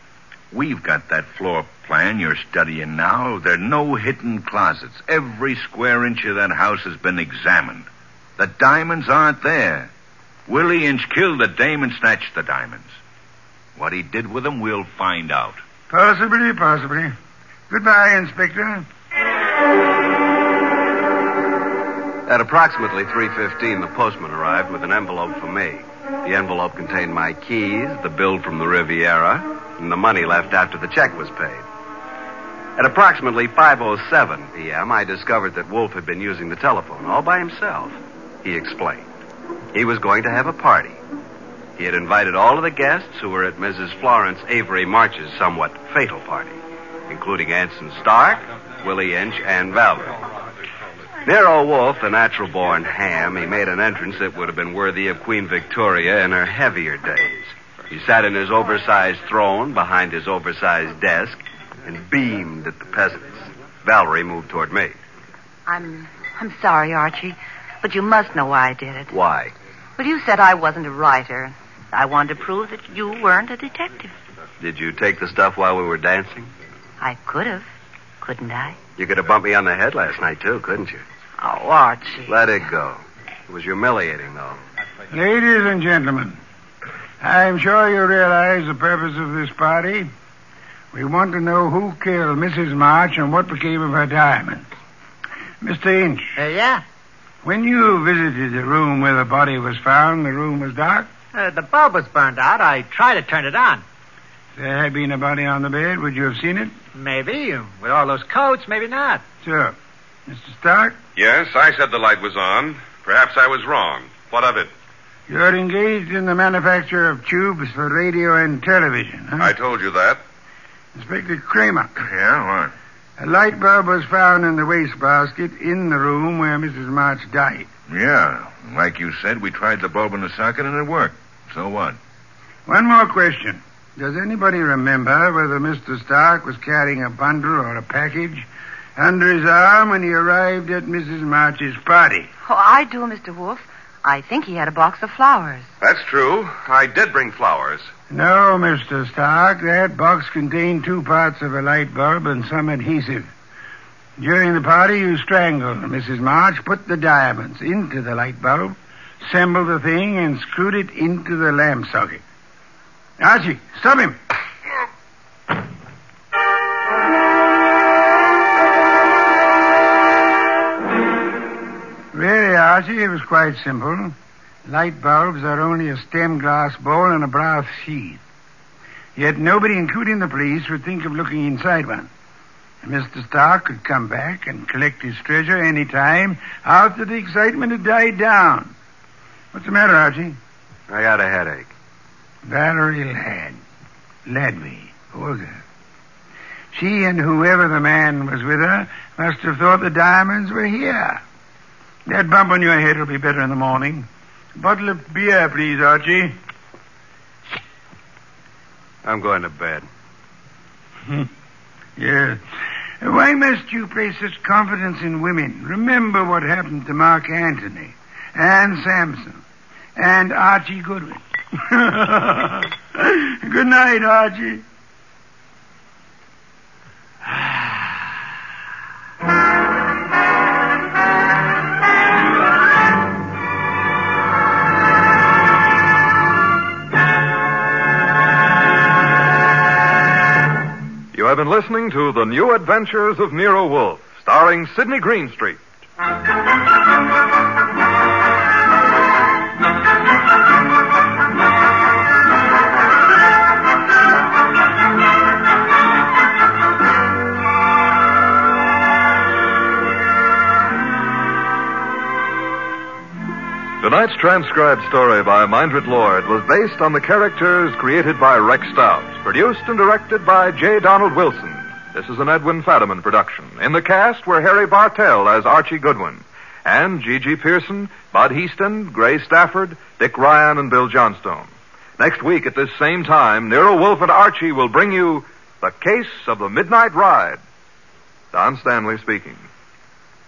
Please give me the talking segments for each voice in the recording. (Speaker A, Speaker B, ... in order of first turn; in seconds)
Speaker A: 0.5-7.9, 8.4-9.9, 10.5-12.9, 13.8-15.6, 122.0-122.7, 127.9-132.0
Speaker B: 15.9-17.1, 17.7-18.9, 85.1-86.4, 87.2-90.1, 90.9-94.7, 95.6-96.3, 97.4-101.1, 104.5-106.7, 109.4-109.8, 110.3-111.0, 115.3-119.5, 120.9-121.9, 123.2-127.7, 132.7-142.3, 148.1-153.3, 154.2-162.2, 163.2-164.2, 172.1-174.1, 174.7-178.2, 179.2-182.1, 182.8-188.7, 189.5-190.4, 192.4-193.6, 194.3-195.6, 196.7-201.2, 202.1-206.3, 212.0-212.4, 213.0-219.4, 219.9-224.6
Speaker C: 22.2-31.6, 32.8-39.0, 39.7-41.0, 41.8-46.6, 47.1-50.2, 51.2-65.0, 69.1-69.5, 74.6-76.5, 79.0-81.0, 82.2-84.6, 190.9-191.7, 209.0-209.9
Speaker D: 65.7-69.1, 70.0-74.1, 77.0-77.7, 78.2-78.8, 81.4-82.3, 142.4-145.7
Speaker E: 96.3-96.8, 101.3-103.8, 106.9-109.2
Speaker F: 111.2-114.7, 119.4-120.2, 145.8-147.9
Speaker G: 241.1-245.6, 263.8-287.4, 288.3-289.5